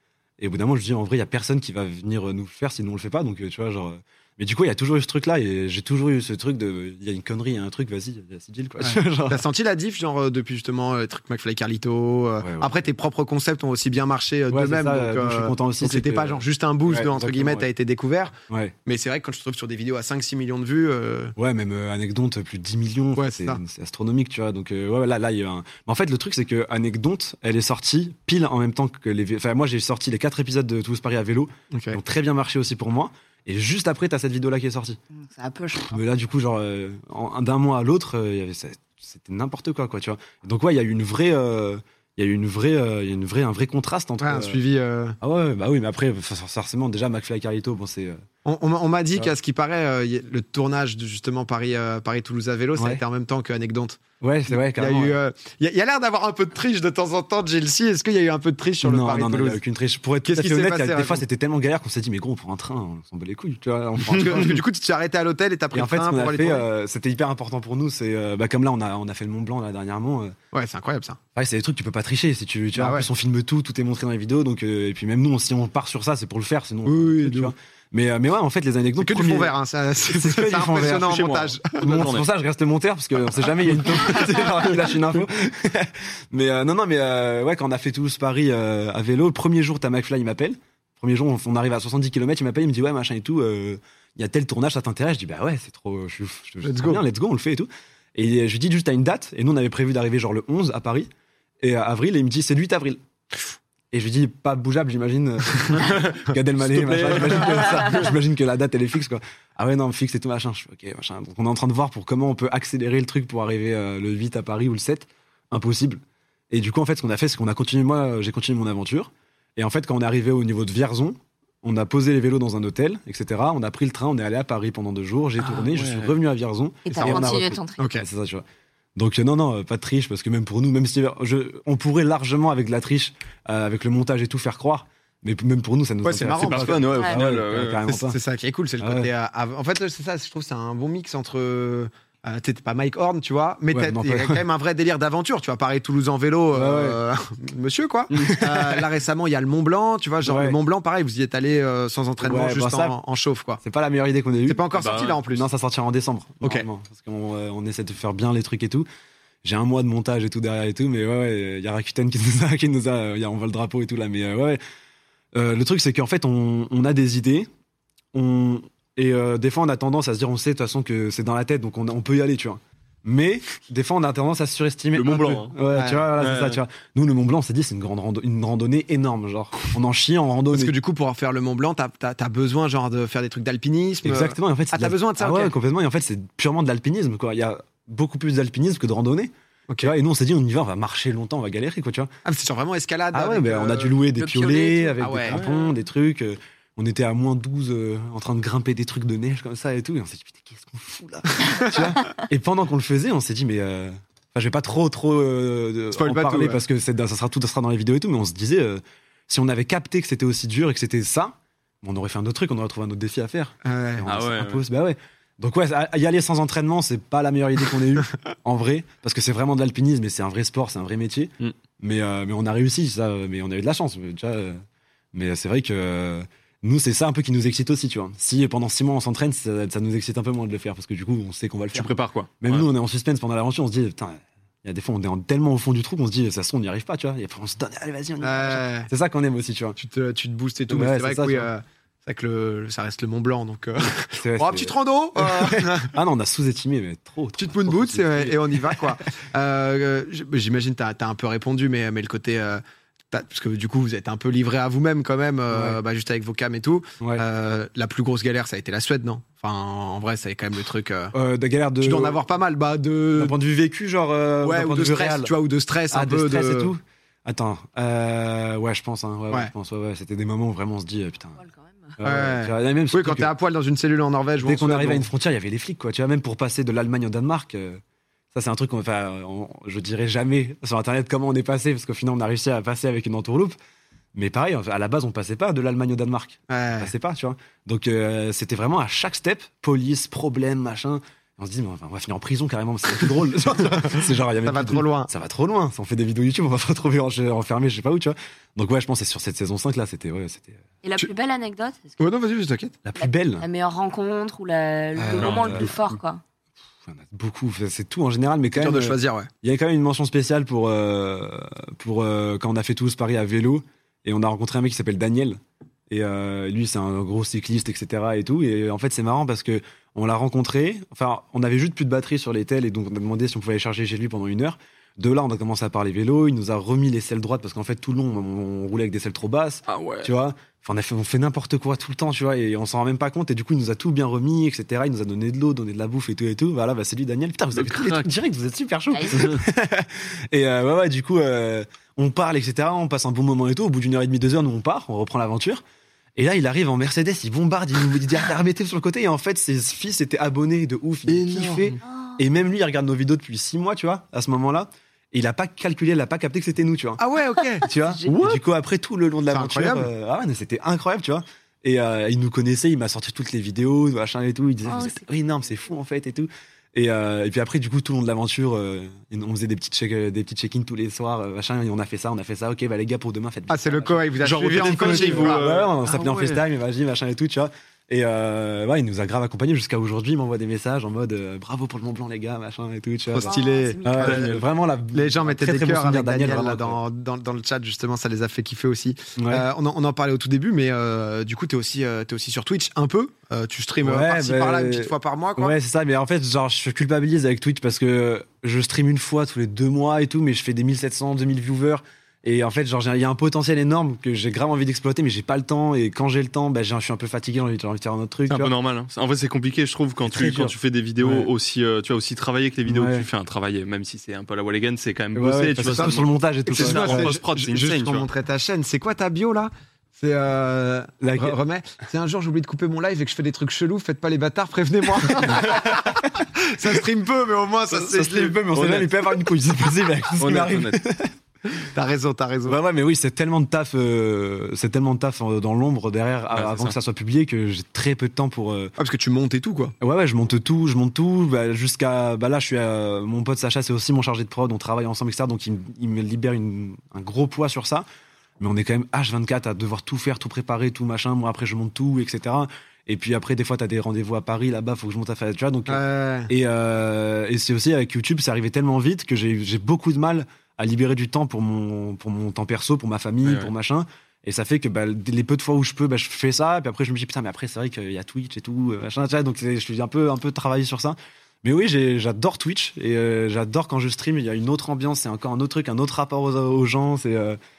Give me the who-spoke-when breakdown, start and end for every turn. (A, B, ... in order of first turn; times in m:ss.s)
0:00.4-0:09.4 A
0:08.8-0:21.4 B
0:12.4-0:12.8 A
0:14.5-0:17.7 A
0:18.5-0:18.8 A
0:21.4-0:35.0 A
0:23.2-0:23.6 B
0:31.7-0:32.0 B
0:35.2-0:36.0 C
0:35.9-0:44.6 A
0:44.2-0:45.2 B
0:45.2-0:48.2 A
0:48.4-0:59.6 B
0:52.8-0:53.0 A
0:54.2-0:55.2 A
0:58.8-1:04.6 A
1:00.2-1:01.2 B
1:04.1-1:06.7 B
1:05.7-1:10.4 A
1:10.5-1:11.2 B
1:11.4-1:19.5 A
1:12.8-1:13.1 B
1:16.9-1:17.5 B
1:19.0-1:22.0 B
1:20.1-1:41.1 A
1:20.9-1:22.3 D
1:36.6-1:37.0 B
1:41.6-1:43.0 A
1:43.9-2:08.4 A
1:45.8-1:48.0 D
2:05.5-2:06.1 D
2:06.8-2:07.8 C
2:06.9-2:08.1 B
2:09.0-2:18.2 A
2:16.0-2:16.9 B
2:16.4-2:17.8 D
2:17.9-2:33.6 B
2:18.8-2:19.1 A
2:23.7-2:24.4 A
2:26.5-2:27.0 A
2:28.1-2:28.8 A
2:30.2-2:30.6 A
2:32.2-2:33.0 A
2:33.6-2:38.9 A
2:34.5-2:35.5 B
2:34.8-2:35.2 D
2:36.4-2:36.7 B
2:39.4-2:44.6 A
2:45.3-2:47.5 A
2:48.1-3:00.7 A
2:55.0-2:55.6 D
2:55.7-2:56.1 B
2:56.2-2:56.6 D
3:00.5-3:05.5 B
3:04.0-3:12.1 A
3:09.7-3:09.9 B
3:12.2-3:14.0 B
3:13.1-3:44.6 A
3:14.2-3:15.0 C
3:15.0-3:15.4 B
3:15.3-3:15.7 D
3:25.9-3:26.6 B
3:33.6-3:34.0 B
3:34.0-3:34.6 D
3:45.1-3:59.8 A
3:51.7-3:52.7 D
3:58.2-3:58.9 B
3:59.8-4:06.0 B
4:00.7-4:01.5 A
4:04.1-4:08.8 A
4:07.4-4:21.1 B
4:15.5-4:15.8 A
4:21.1-4:22.2 A
4:21.8-4:23.4 B
4:23.2-4:25.3 A
4:24.4-4:26.7 B
4:25.9-4:31.4 A
4:31.4-4:31.9 C
4:32.0-4:33.3 A
4:32.0-4:35.1 B
4:34.4-4:37.8 A
4:38.3-4:43.6 A
4:44.2-5:00.6 A
4:46.5-4:46.9 B
4:53.7-4:55.1 B
5:00.8-5:02.1 C
5:02.0-5:02.8 B
5:02.8-5:03.5 A
5:03.0-5:06.2 C
5:05.0-5:05.8 A
5:05.2-5:05.8 D
5:06.9-5:45.6 A
5:08.5-5:09.3 B
5:29.7-5:30.1 D
5:37.6-5:38.1 D
5:39.1-5:39.4 D
5:46.2-5:57.0 A
5:51.3-5:51.7 B
5:51.9-5:52.2 C
5:57.0-5:57.7 B
5:57.6-6:26.8 A
5:57.8-5:58.4 C
5:59.3-5:59.9 B
6:04.7-6:05.0 C
6:13.5-6:15.5 B
6:14.2-6:16.4 D
6:23.1-6:24.3 B
6:23.2-6:24.1 C
6:24.0-6:24.4 D
6:24.9-6:35.6 B
6:29.2-6:29.5 A
6:33.8-6:48.5 A
6:48.3-6:58.1 D
6:50.0-6:51.3 A
6:52.7-6:53.1 A
6:55.1-6:57.2 A
6:56.5-7:08.5 B
7:01.0-7:01.4 A
7:07.7-7:11.6 A
7:08.5-7:09.0 D
7:10.2-7:10.8 D
7:11.7-7:12.6 B
7:12.5-7:18.7 A
7:16.4-7:16.7 D
7:18.8-7:19.7 B
7:19.8-7:27.9 A
7:28.4-7:57.4 A
7:35.7-7:36.3 B
7:43.2-7:43.5 D